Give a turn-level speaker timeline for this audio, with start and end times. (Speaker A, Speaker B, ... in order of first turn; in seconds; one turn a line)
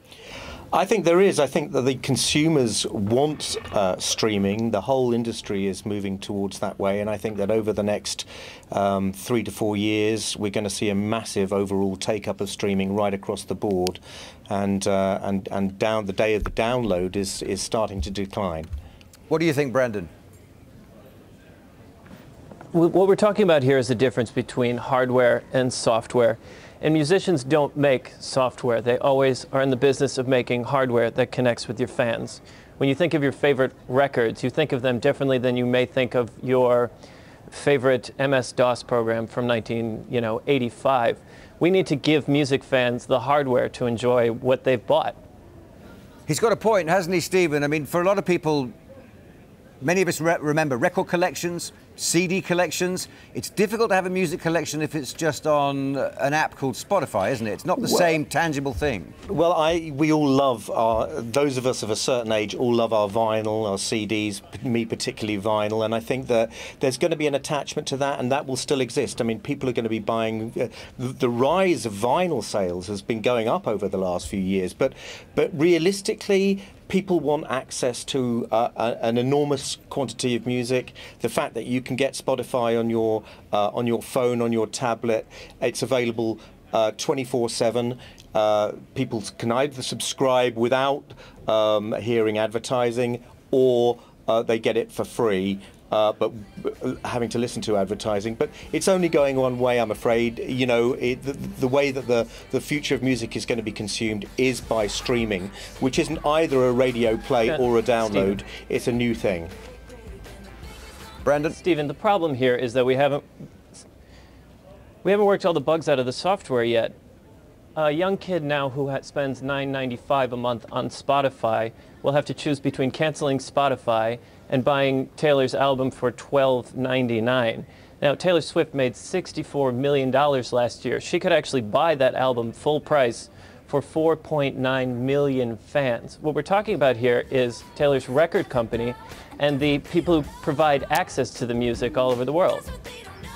Speaker A: 0.7-18.7
Speaker B: 19.3-20.1
Speaker C: 22.7-36.9
Speaker C: 37.5-45.2
Speaker B: 46.3-48.7
Speaker B: 49.8-59.1
Speaker A: 59.3-109.5
Speaker C: 107.5-108.4
Speaker B: 111.2-111.5
Speaker C: 111.6-113.2
Speaker C: 115.0-116.9
Speaker C: 117.8-142.7